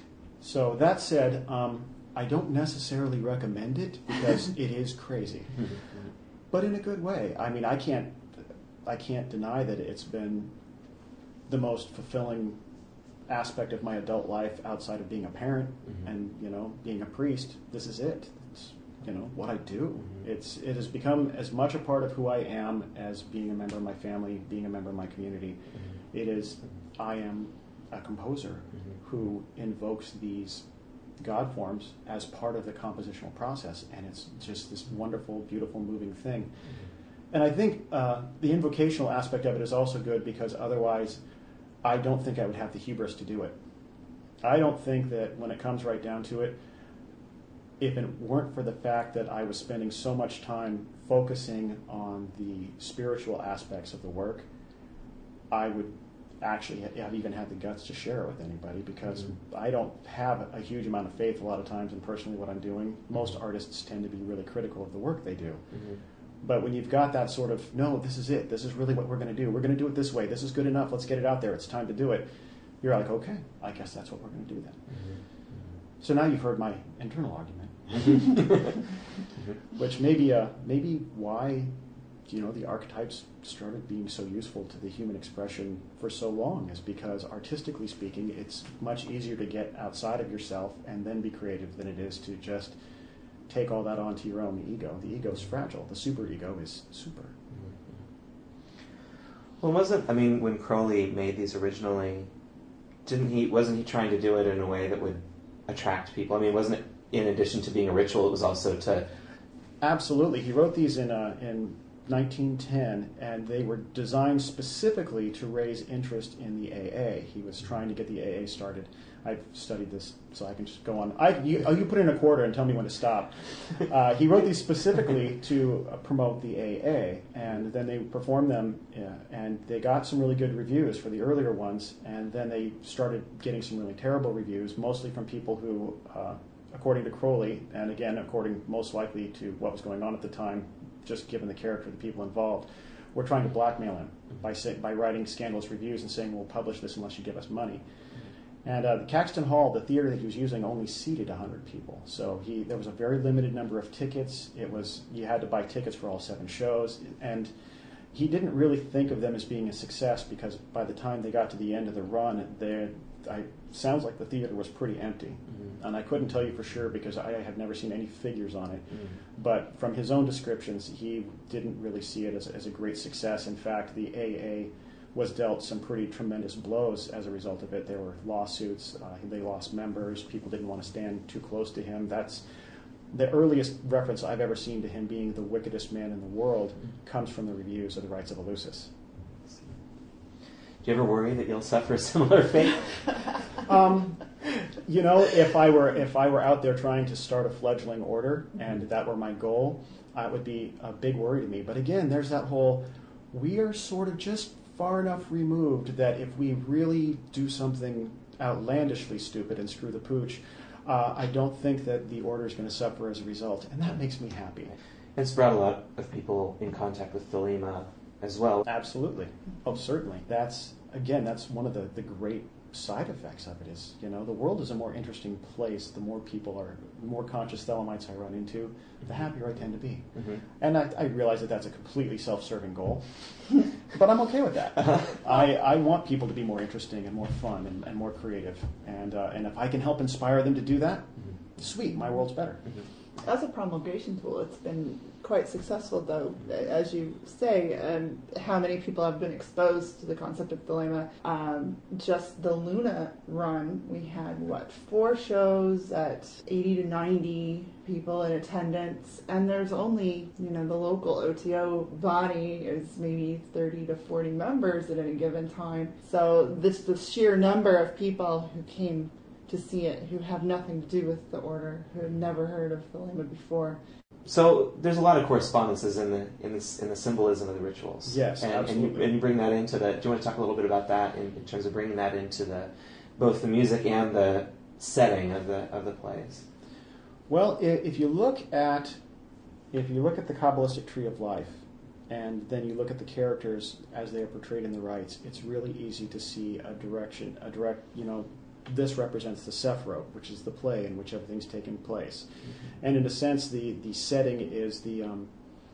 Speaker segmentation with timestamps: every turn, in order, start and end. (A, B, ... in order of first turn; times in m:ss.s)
0:00.4-0:05.7 A
0:06.5-0:10.5 A
0:11.5-0:12.6 A
0:13.3-0:30.6 A
0:31.2-0:36.5 A
0:37.3-0:41.2 A
0:41.8-0:43.6 A
0:44.4-0:46.6 A
0:47.8-0:54.5 A
0:55.5-1:05.6 A
1:05.7-1:06.0 B
1:06.4-1:12.2 A
1:12.8-1:14.8 A
1:14.9-1:15.2 B
1:16.0-1:18.7 A
1:19.7-1:21.7 A
1:22.2-1:32.8 A
1:33.5-1:37.3 A
1:39.6-1:42.3 B
1:43.0-1:49.1 B
1:49.8-2:27.8 A
2:28.6-2:37.5 A
2:38.1-3:02.4 A
3:03.1-3:08.9 A
3:10.8-3:13.1 B
3:13.6-3:34.7 A
3:35.2-3:38.6 B
3:38.6-3:53.1 A
3:53.8-4:02.6 A
4:03.2-4:33.8 C
4:34.2-4:46.4 B
4:38.0-4:39.1 A
4:47.3-4:49.0 A
4:49.7-5:05.3 A